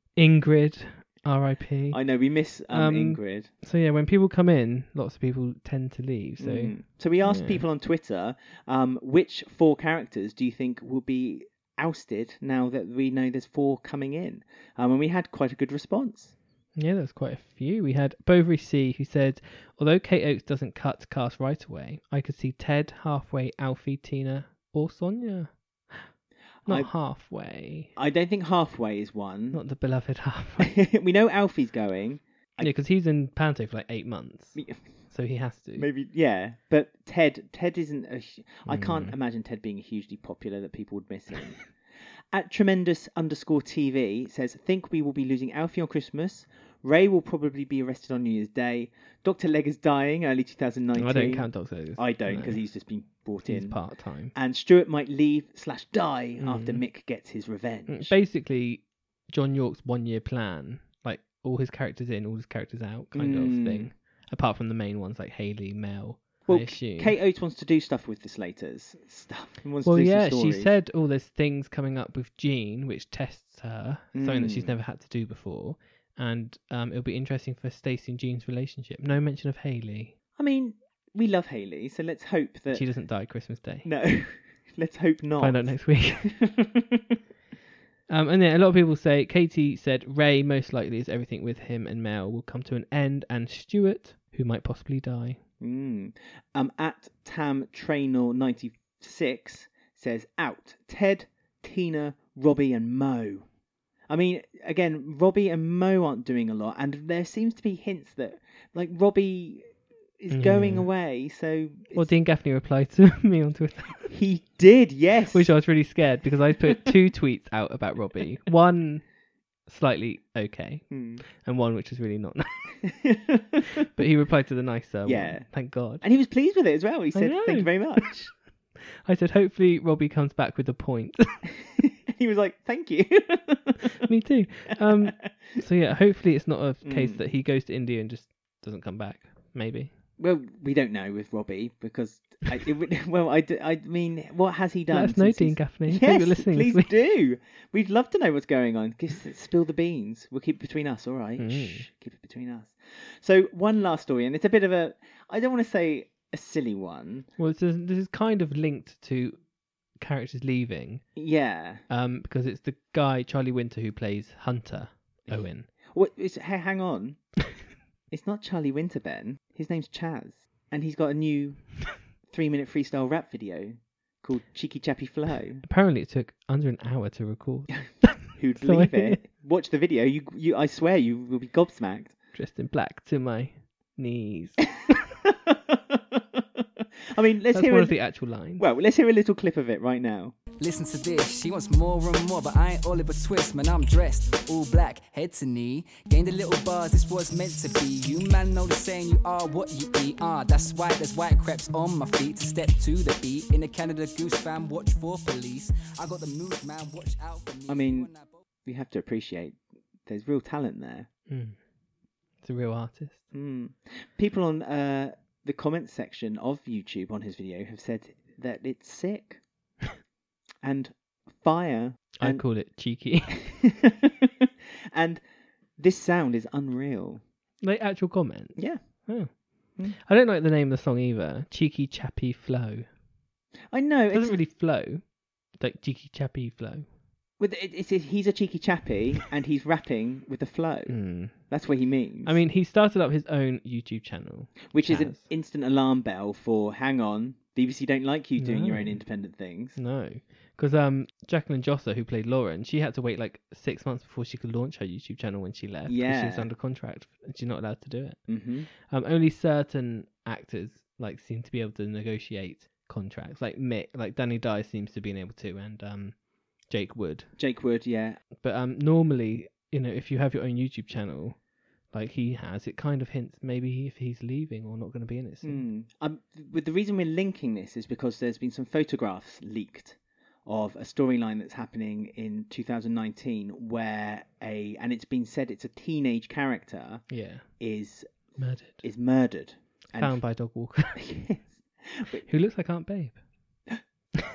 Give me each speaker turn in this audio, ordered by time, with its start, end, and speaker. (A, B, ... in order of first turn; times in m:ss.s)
0:00.2-0:02.0 A
0:01.9-0:03.5 B
0:02.7-0:07.6 A
0:06.4-0:16.3 B
0:16.8-0:26.1 A
0:26.6-0:26.9 B
0:26.6-0:27.9 A
0:28.0-0:29.6 B
0:29.5-0:30.8 A
0:30.6-0:32.7 B
0:32.6-0:35.9 A
0:34.6-0:34.8 B
0:35.8-0:41.7 B
0:38.6-0:39.1 A
0:42.3-0:53.8 B
0:51.0-0:52.6 A
0:53.4-0:54.3 A
0:54.3-0:58.2 B
0:56.4-0:56.8 A
0:57.9-1:07.1 A
1:03.1-1:03.9 B
1:06.4-1:10.7 B
1:09.8-1:20.1 A
1:14.1-1:14.8 B
1:20.4-1:22.8 B
1:22.7-1:23.9 A
1:23.8-1:27.0 B
1:25.4-1:26.4 A
1:28.1-1:35.4 A
1:35.6-1:43.4 B
1:44.1-1:52.1 B
1:50.3-1:50.9 A
1:51.9-1:54.1 A
1:54.1-1:55.5 B
1:55.3-1:59.0 A
1:59.6-2:02.7 A
2:00.9-2:01.2 B
2:02.8-2:03.7 B
2:03.9-2:06.0 A
2:05.0-2:05.5 B
2:06.0-2:08.3 B
2:07.1-2:08.0 A
2:09.0-2:11.5 A
2:11.8-2:14.0 B
2:13.9-2:19.9 A
2:14.8-2:15.3 B
2:16.8-2:17.2 B
2:20.2-2:37.3 B
2:24.9-2:26.9 A
2:31.4-2:31.9 A
2:37.4-2:39.4 A
2:40.0-2:41.0 A
2:41.2-2:41.8 B
2:41.9-2:45.7 A
2:45.3-2:47.2 B
2:48.1-2:55.6 B
2:55.6-2:59.2 A
2:58.3-3:02.1 B
3:02.3-3:04.6 A
3:05.3-3:06.4 B
3:07.1-3:08.0 B
3:07.5-3:08.6 A
3:08.5-3:10.4 B
3:10.6-3:28.3 C
3:27.7-3:28.1 B
3:28.6-3:31.1 B
3:31.3-3:31.6 A
3:32.4-3:33.2 A
3:33.3-3:39.4 B
3:40.6-3:42.4 B
3:42.2-3:43.6 A
3:43.5-3:45.2 B
3:45.8-3:47.2 B
3:47.6-3:52.9 A
3:48.6-3:48.8 B
3:53.7-3:54.4 B
3:54.1-3:56.8 A
3:57.4-4:02.4 B
4:00.9-4:01.5 A
4:02.2-4:05.2 A
4:04.7-4:09.8 B
4:08.4-4:09.0 A
4:09.8-4:27.3 A
4:15.9-4:16.5 B
4:18.3-4:18.7 B
4:27.4-4:28.2 B
4:28.4-4:35.6 A
4:35.4-4:50.4 B
4:47.1-4:47.6 A
4:48.4-4:48.8 A
4:50.0-4:51.0 A
4:50.9-4:52.2 B
4:52.2-4:53.2 A